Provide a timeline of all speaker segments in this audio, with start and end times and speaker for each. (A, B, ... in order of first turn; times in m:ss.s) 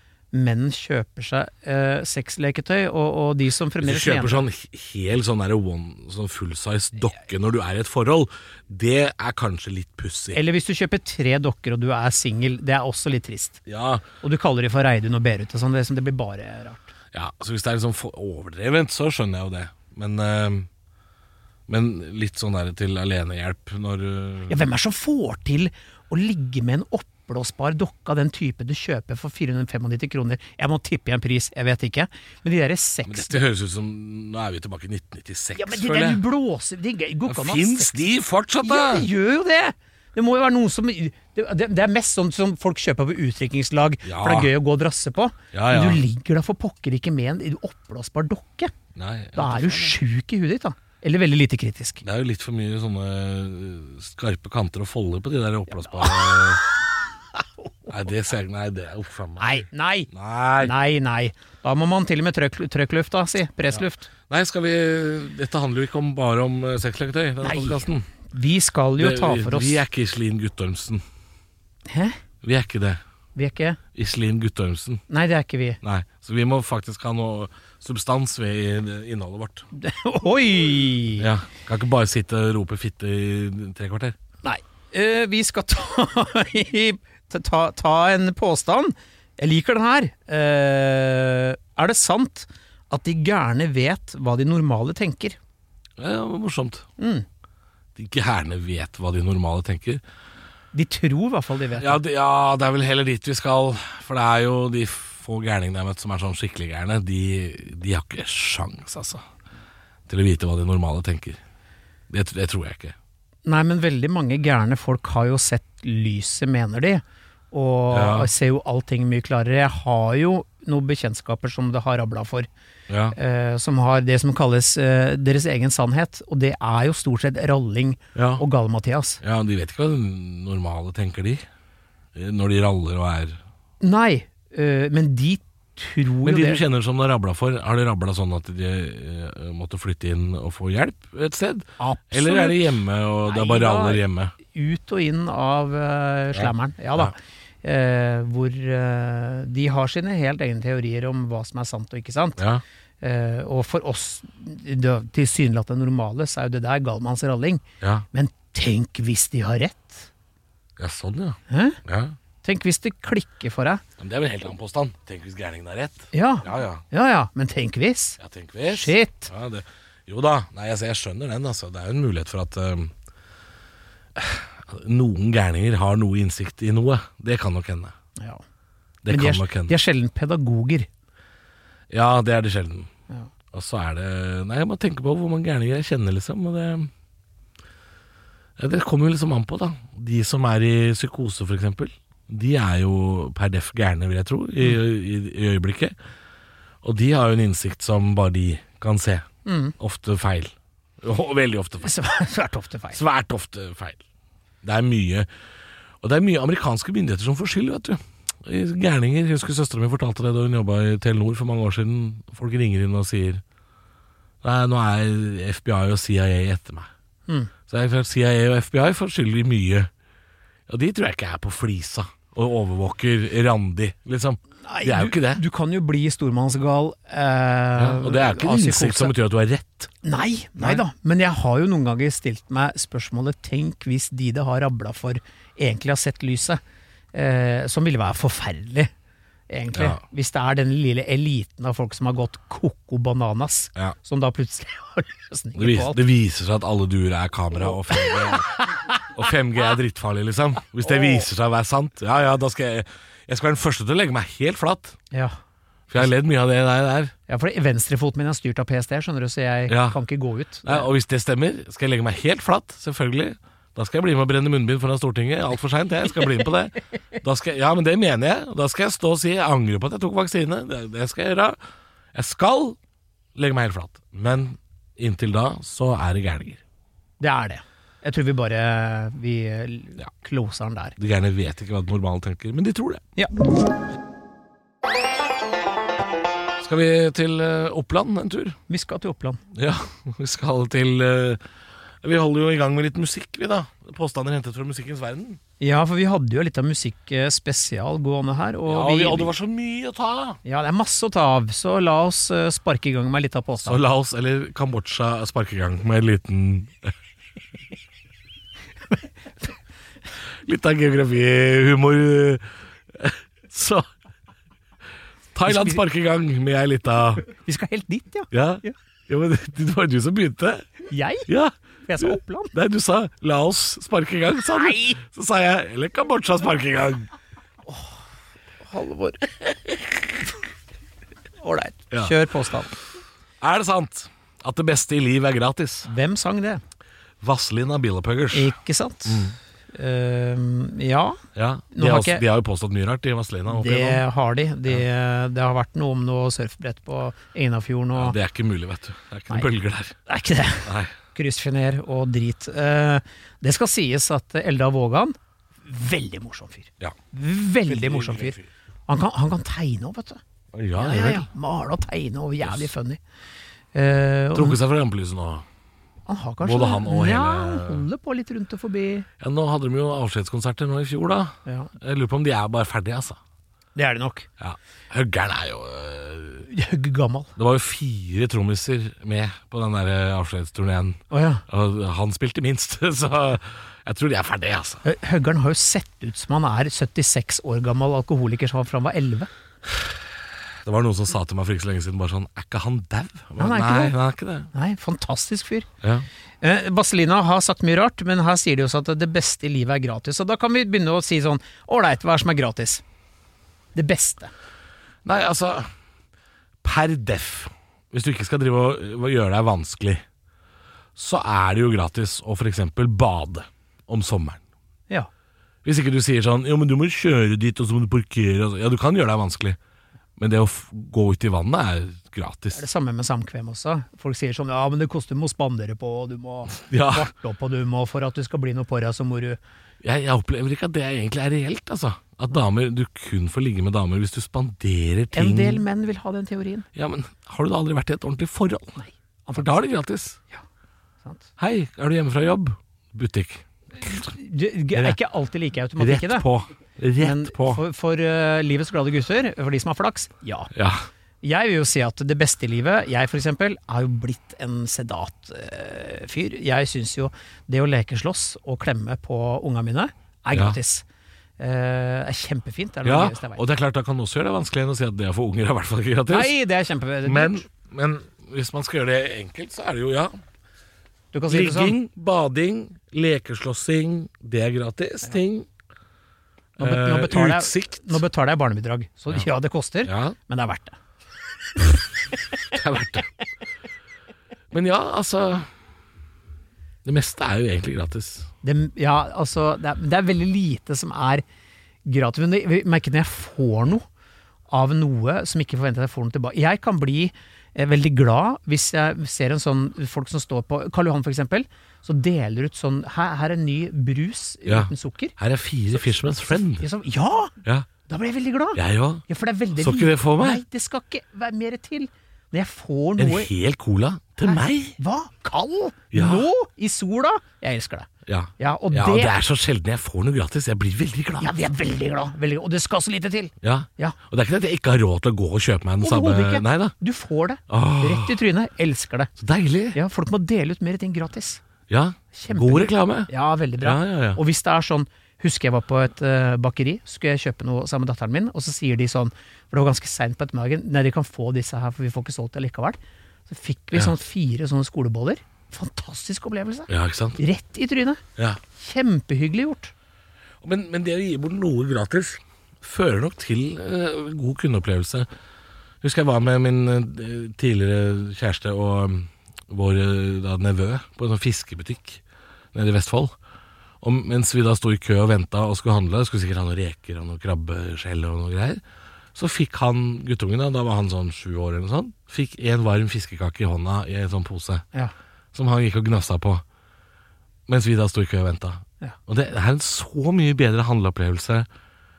0:00.3-0:04.4 A
0:03.8-0:10.4 B
0:10.3-0:13.6 A
0:13.7-0:14.0 B
0:14.2-0:16.9 A
0:17.1-0:20.7 B
0:21.7-0:24.6 B
0:24.5-0:33.4 A
0:33.1-0:36.2 B
0:35.6-0:38.0 A
0:37.3-0:39.1 B
0:38.6-0:48.7 A
0:44.0-0:44.5 B
0:45.5-0:46.0 B
0:49.0-0:50.0 B
0:49.4-0:52.0 A
0:52.0-0:56.6 B
0:55.7-0:56.6 A
0:57.9-1:00.7 B
0:59.4-1:04.1 A
1:03.7-1:08.1 B
1:07.4-1:09.8 A
1:09.0-1:11.0 B
1:11.9-1:12.2 A
1:12.4-1:13.0 B
1:13.4-1:13.8 A
1:13.9-1:15.0 B
1:15.1-1:15.8 A
1:15.8-1:19.6 B
1:19.7-1:21.3 A
1:21.2-1:24.2 B
1:24.4-1:35.4 A
1:36.0-1:36.9 B
1:37.0-1:37.3 A
1:38.0-1:40.0 B
1:40.7-1:42.0 A
1:41.8-1:49.2 B
1:50.1-1:51.4 B
1:52.1-1:53.0 B
1:53.4-2:02.5 A
1:57.9-1:58.3 B
2:02.9-2:03.2 B
2:03.1-2:09.2 A
2:08.2-2:08.4 B
2:09.2-2:11.4 B
2:12.2-2:13.4 B
2:13.8-2:16.6 A
2:16.2-2:24.3 B
2:21.8-2:32.4 A
2:26.3-2:27.1 B
2:32.4-2:32.6 B
2:33.0-2:40.1 A
2:40.8-2:42.2 B
2:41.5-2:41.8 A
2:42.4-2:43.8 A
2:44.0-2:46.8 B
2:46.1-2:49.3 A
2:48.2-2:52.9 B
2:54.2-2:57.9 B
2:58.2-2:58.4 A
2:59.0-2:59.8 B
2:59.1-3:00.9 A
3:01.9-3:02.9 B
3:03.5-3:06.9 B
3:08.6-3:16.0 B
3:16.8-3:19.3 B
3:19.4-3:19.7 A
3:19.8-3:21.9 B
3:21.8-3:23.0 A
3:22.9-3:24.0 B
3:24.6-3:25.3 B
3:26.0-3:33.4 B
3:34.4-3:36.9 B
3:37.7-3:39.9 B
3:40.7-3:45.4 B
3:44.6-3:49.1 A
3:47.8-3:49.9 B
3:50.0-3:56.6 A
3:50.6-3:50.8 B
3:57.1-3:58.9 A
3:59.5-4:06.0 A
3:59.7-4:00.0 B
4:05.6-4:15.0 B
4:07.9-4:08.4 A
4:10.9-4:11.2 A
4:15.9-4:17.1 B
4:17.3-4:20.9 A
4:19.7-4:20.0 B
4:20.6-4:31.6 B
4:32.1-4:32.8 B
4:33.4-4:36.6 B
4:37.2-4:41.0 A
4:41.0-4:43.0 B
4:46.6-4:48.6 B
4:48.7-4:49.4 A
4:49.5-4:51.4 B
4:52.0-4:55.4 B
4:55.6-4:59.3 A
4:58.7-5:00.4 B
5:00.4-5:03.8 A
5:03.6-5:06.9 B
5:08.9-5:09.5 A
5:10.4-5:13.9 B
5:15.3-5:17.2 B
5:15.5-5:15.8 A
5:17.3-5:18.8 A
5:18.3-5:20.7 B
5:20.9-5:21.3 A
5:21.3-5:27.1 B
5:21.9-5:22.5 A
5:24.5-5:25.0 A
5:27.7-5:28.0 A
5:28.6-5:29.3 A
5:31.4-5:32.7 A
5:31.9-5:32.2 B
5:33.4-5:35.9 B
5:35.9-5:36.6 A
5:37.2-5:38.6 B
5:38.3-5:41.2 A
5:39.1-5:39.4 B
5:41.4-5:44.0 B
5:41.7-5:42.2 A
5:43.5-5:48.2 A
5:48.0-5:50.0 B
5:50.1-6:00.2 A
5:50.6-5:51.0 B
5:57.6-5:58.5 B
6:00.5-6:01.3 B
6:00.8-6:03.0 A
6:02.4-6:02.7 B
6:03.7-6:04.6 A
6:04.3-6:05.4 B
6:06.1-6:09.1 A
6:06.4-6:07.9 B
6:09.2-6:13.2 B
6:11.5-6:11.7 A
6:13.8-6:14.3 A
6:14.4-6:16.5 B
6:16.5-6:17.3 A
6:17.4-6:24.8 B
6:21.1-6:21.4 A
6:24.8-6:29.3 A
6:30.6-6:34.5 B
6:33.4-6:34.0 A
6:34.5-6:35.7 A
6:35.8-6:36.1 B
6:36.4-6:42.8 A
6:43.8-6:44.3 A
6:45.0-6:45.7 B
6:46.6-6:50.0 B
6:51.0-6:54.4 B
6:55.6-6:59.6 B
7:00.2-7:02.6 B
7:02.5-7:09.4 A
7:06.5-7:07.1 B
7:09.8-7:15.6 B
7:15.1-7:16.7 A
7:16.8-7:18.8 B
7:18.8-7:19.6 A
7:19.3-7:20.2 B
7:21.4-7:24.1 B
7:23.8-7:26.3 A
7:25.8-7:27.6 B
7:27.0-7:30.5 A
7:30.5-7:30.9 B
7:31.2-7:40.8 A
7:40.3-7:40.6 B
7:41.4-7:43.4 A
7:42.8-7:46.4 B
7:46.1-7:47.5 A
7:47.0-7:50.1 B
7:51.1-7:51.8 A
7:51.3-7:55.5 B
7:56.6-7:58.0 B
7:56.6-8:00.8 A
7:59.8-8:00.2 B
8:02.5-8:03.1 B
8:04.5-8:05.5 B
8:06.8-8:08.3 B
8:08.4-8:11.2 A
8:11.8-8:13.8 A
8:14.5-8:25.2 A
8:24.5-8:26.7 B
8:25.8-8:27.3 A
8:27.9-8:33.3 A
8:28.6-8:29.0 B
8:29.6-8:30.4 B
8:33.0-8:34.8 B
8:34.2-8:37.9 A
8:35.9-8:36.3 B
8:38.1-8:41.4 B
8:38.4-8:39.2 A
8:41.2-8:44.0 A
8:43.4-8:46.8 B
8:45.8-8:49.1 A
8:47.5-8:48.2 B
8:49.2-8:49.8 B
8:49.7-8:51.4 A
8:51.7-8:54.2 B
8:52.1-9:08.0 A
9:06.7-9:07.2 B
9:08.5-9:09.7 A
9:10.4-9:15.1 B
9:15.8-9:22.0 B
9:22.5-9:23.1 B
9:23.8-9:28.6 B
9:29.2-9:34.7 B
9:35.3-9:36.4 B
9:37.5-9:41.5 B